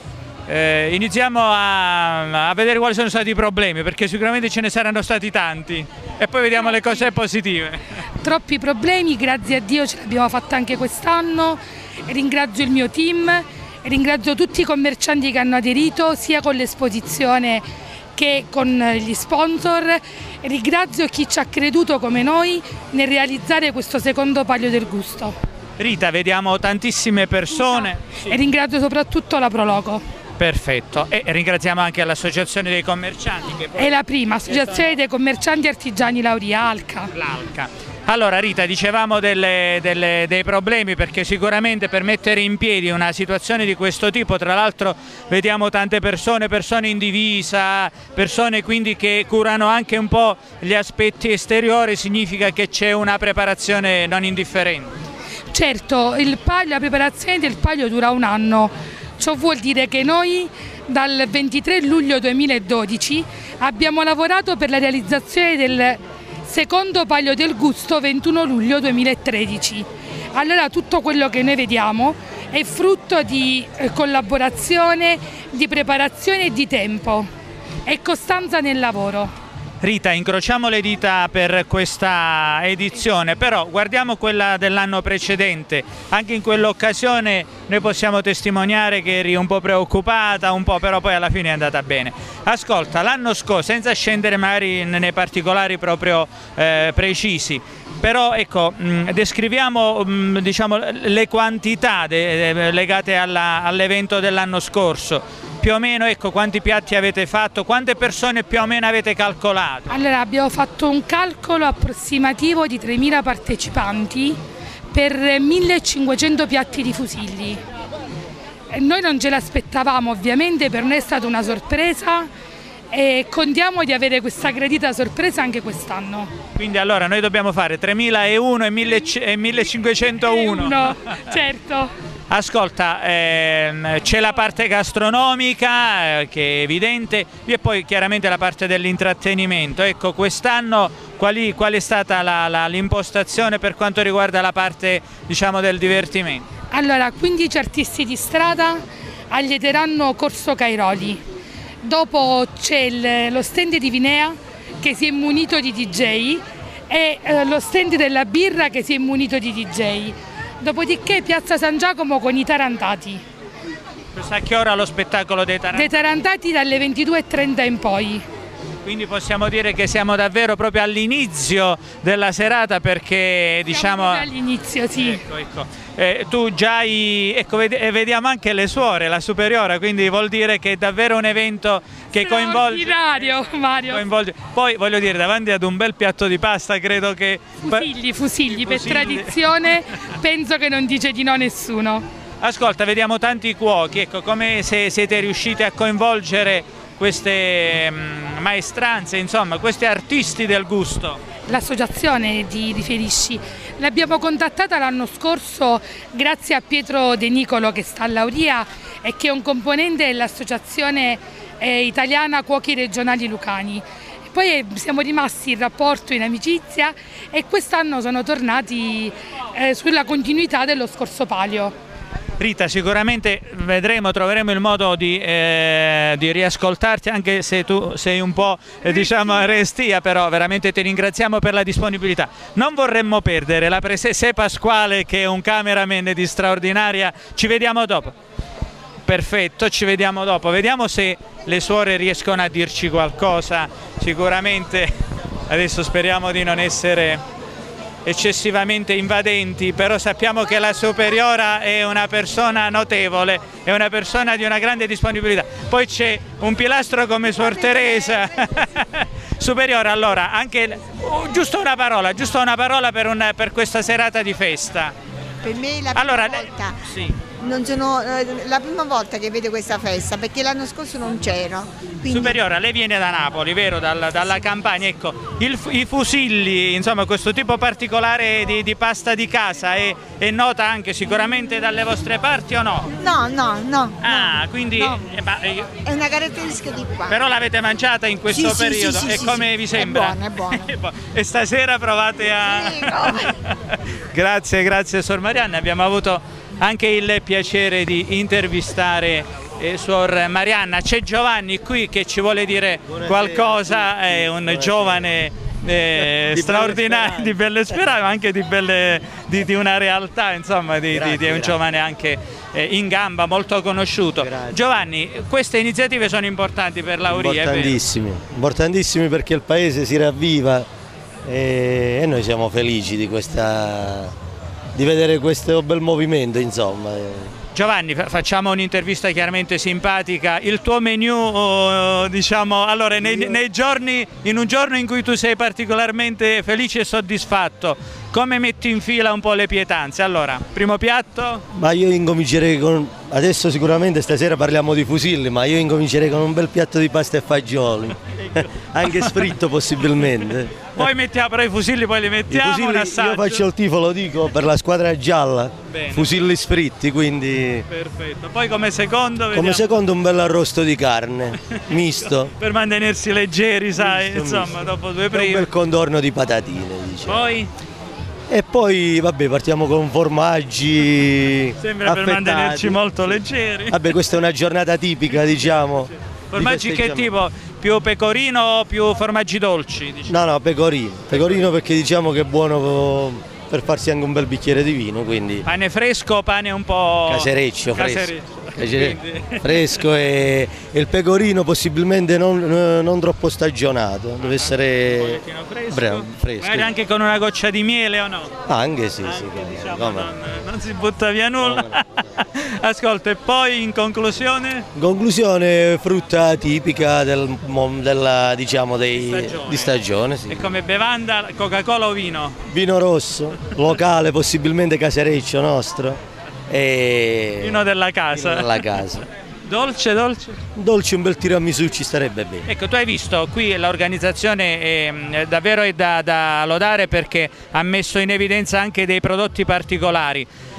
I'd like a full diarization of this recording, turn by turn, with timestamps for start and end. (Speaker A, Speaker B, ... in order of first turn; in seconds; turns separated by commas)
Speaker A: 0.5-8.0, Speaker B: 8.2-25.4, Speaker A: 25.8-28.4, Speaker B: 27.6-30.0, Speaker A: 30.4-35.0, Speaker B: 33.8-37.1, Speaker A: 37.1-54.9, Speaker B: 55.5-77.3, Speaker B: 77.9-79.3, Speaker A: 79.8-110.0, Speaker B: 109.9-114.4, Speaker B: 114.9-117.6, Speaker B: 118.7-122.3, Speaker B: 122.9-126.3, Speaker A: 126.6-131.3, Speaker B: 130.0-131.9, Speaker A: 132.3-146.4, Speaker B: 146.7-151.2, Speaker B: 151.8-163.2, Speaker A: 164.1-165.9, Speaker B: 165.7-168.2, Speaker A: 168.8-174.3, Speaker B: 173.7-175.2, Speaker A: 174.9-187.9, Speaker B: 182.1-184.0, Speaker B: 187.7-192.1, Speaker A: 188.5-189.6, Speaker A: 192.4-201.2, Speaker B: 201.5-221.7, Speaker A: 222.4-238.2, Speaker A: 239.1-244.9, Speaker A: 245.5-247.2, Speaker A: 248.1-264.9, Speaker C: 257.5-258.2, Speaker C: 265.4-272.4, Speaker A: 265.9-267.2, Speaker A: 272.1-283.0, Speaker C: 283.0-285.0, Speaker A: 284.0-285.7, Speaker C: 285.9-287.2, Speaker A: 287.1-317.8, Speaker C: 288.3-290.7, Speaker C: 292.4-293.3, Speaker D: 302.9-305.1, Speaker D: 306.0-307.4, Speaker D: 310.9-311.6, Speaker D: 314.2-314.6, Speaker D: 317.1-320.7, Speaker D: 321.2-324.1, Speaker D: 324.8-327.3, Speaker A: 327.6-341.4, Speaker D: 333.0-333.4, Speaker D: 341.5-350.9, Speaker A: 348.1-349.2, Speaker A: 350.8-353.5, Speaker D: 352.3-357.7, Speaker A: 355.7-356.3, Speaker A: 357.7-359.7, Speaker D: 359.3-362.3, Speaker A: 362.0-365.5, Speaker D: 363.8-364.6, Speaker D: 365.1-367.2, Speaker A: 367.1-367.5, Speaker D: 368.3-377.1, Speaker A: 371.6-373.8, Speaker A: 376.3-380.2, Speaker D: 380.1-385.5, Speaker A: 381.1-381.4, Speaker A: 385.5-389.8, Speaker D: 387.1-396.7, Speaker A: 394.2-398.3, Speaker D: 398.5-400.1, Speaker A: 399.0-404.7, Speaker D: 401.4-401.8, Speaker D: 404.8-410.5, Speaker A: 408.9-409.8, Speaker A: 410.3-412.4, Speaker D: 412.5-416.0, Speaker D: 416.5-417.6, Speaker A: 417.4-418.5, Speaker D: 418.1-419.0, Speaker A: 419.4-420.4, Speaker D: 420.6-422.5, Speaker A: 422.5-430.3